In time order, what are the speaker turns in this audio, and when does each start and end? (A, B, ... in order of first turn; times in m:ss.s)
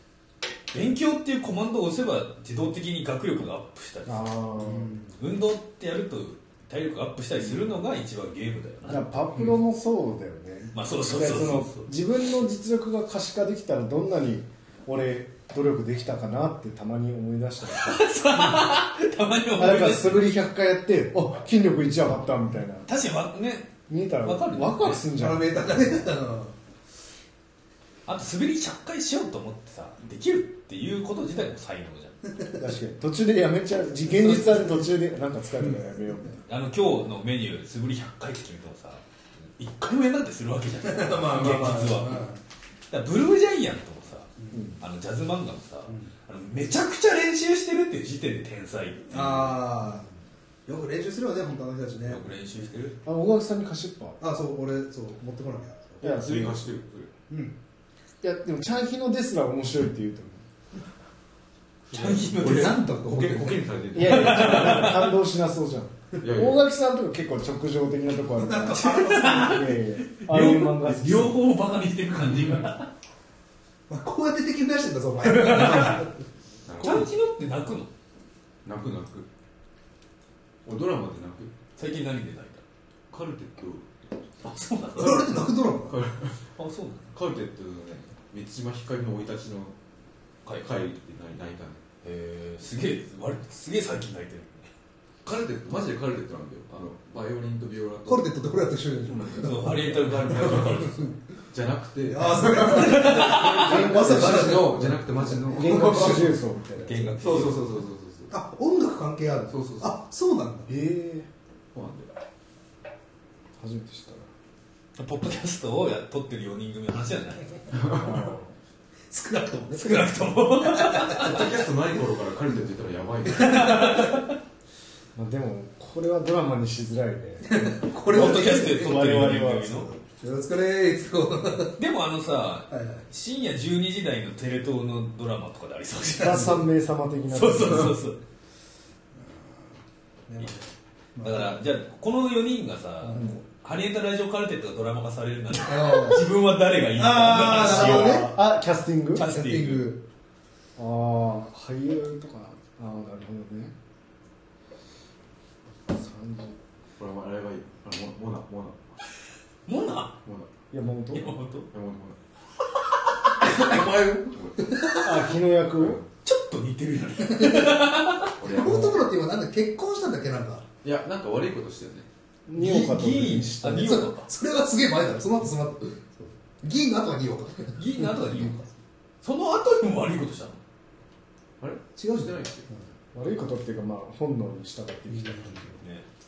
0:00.7-0:04.4 A
0:04.1-0:04.9 B
0:04.6-0:05.2 C
0:05.2-0:09.5 A
0:08.9-0:18.6 B
0:10.7-0:11.9 A
0:17.6-0:20.3 A
0:19.6-0:22.9 B
0:22.9-0:25.0 A
0:23.9-0:25.9 B
0:25.1-0:26.6 C
0:28.1-0:32.2 A
0:32.6-0:36.4 B
0:34.1-0:34.8 C
0:36.5-0:39.0 A
0:39.6-0:42.3 A
0:40.8-0:42.4 C
0:42.9-0:49.7 A
0:44.5-0:44.8 B
0:49.1-0:50.1 C
0:50.7-0:52.3 C
0:52.1-0:53.0 A
0:53.0-0:54.2 B
0:54.2-0:56.1 C
0:56.0-0:56.7 B
0:56.0-0:57.1 D
0:57.3-0:57.6 C
0:58.2-1:00.5 B
1:01.9-1:05.1 D
1:01.9-1:02.9 A
1:02.3-1:03.6 C
1:03.9-1:11.4 B
1:04.0-1:05.1 A
1:06.2-1:06.6 D
1:08.4-1:09.6 C
1:08.7-1:12.9 A
1:12.4-1:12.6 D
1:13.9-1:16.2 C
1:15.2-1:16.0 A
1:16.7-1:17.1 D
1:16.8-1:17.9 A
1:18.6-1:19.3 D
1:20.6-1:21.5 D
1:21.8-1:22.6 A
1:23.1-1:23.9 D
1:24.4-1:25.4 A
1:24.9-1:26.0 C
1:25.9-1:26.4 D
1:26.6-1:27.1 A
1:27.1-1:29.8 D
1:30.6-1:31.8 D
1:32.0-1:34.7 A
1:35.2-1:38.3 D
1:38.1-1:41.2 C
1:39.1-1:40.8 D
1:39.3-1:41.1 A
1:41.5-1:46.3 D
1:42.0-1:46.3 C
1:42.7-1:43.9 A
1:43.3-1:47.2 B
1:46.8-1:47.7 A
1:47.2-1:48.3 D
1:48.3-1:50.7 C
1:49.5-1:50.0 D
1:50.7-1:51.3 B
1:51.7-1:52.1 D
1:53.6-1:54.3 B
1:55.0-1:57.6 A
1:57.7-1:58.3 D
1:58.0-1:58.5 B
1:59.1-2:01.4 C
1:59.7-2:01.5 A
2:01.1-2:03.9 D
2:03.3-2:04.4 A
2:03.4-2:04.1 C
2:05.2-2:09.9 B
2:07.4-2:09.1 C
2:08.0-2:09.9 A
2:10.0-2:11.8 C
2:11.8-2:16.7 A
2:12.7-2:13.0 C
2:16.2-2:18.0 B
2:17.3-2:18.2 A
2:19.2-2:19.5 C
2:20.3-2:21.6 C
2:21.2-2:28.3 A
2:23.1-2:23.3 C
2:25.6-2:26.3 C
2:26.9-2:28.3 C
2:27.6-2:29.3 B
2:29.2-2:29.9 A
2:29.2-2:30.0 C
2:30.8-2:33.7 B
2:35.9-2:36.6 B
2:37.0-2:39.0 D
2:39.7-2:40.2 A
2:40.7-2:41.3 B
2:41.1-2:41.7 A
2:41.7-2:42.2 D
2:43.4-2:45.3 C
2:43.4-2:44.8 D
2:44.9-2:46.0 B
2:45.8-2:46.1 D
2:46.2-2:48.4 A
2:47.2-2:50.6 C
2:48.4-2:49.1 D
2:50.8-2:52.1 D
2:52.5-2:54.0 B
2:52.6-2:54.3 A
2:53.7-2:58.6 C
2:57.8-2:58.6 A
2:59.2-3:00.6 A
3:01.6-3:02.7 D
3:02.0-3:02.8 C
3:03.1-3:05.8 B
3:05.1-3:05.7 C
3:05.8-3:06.1 A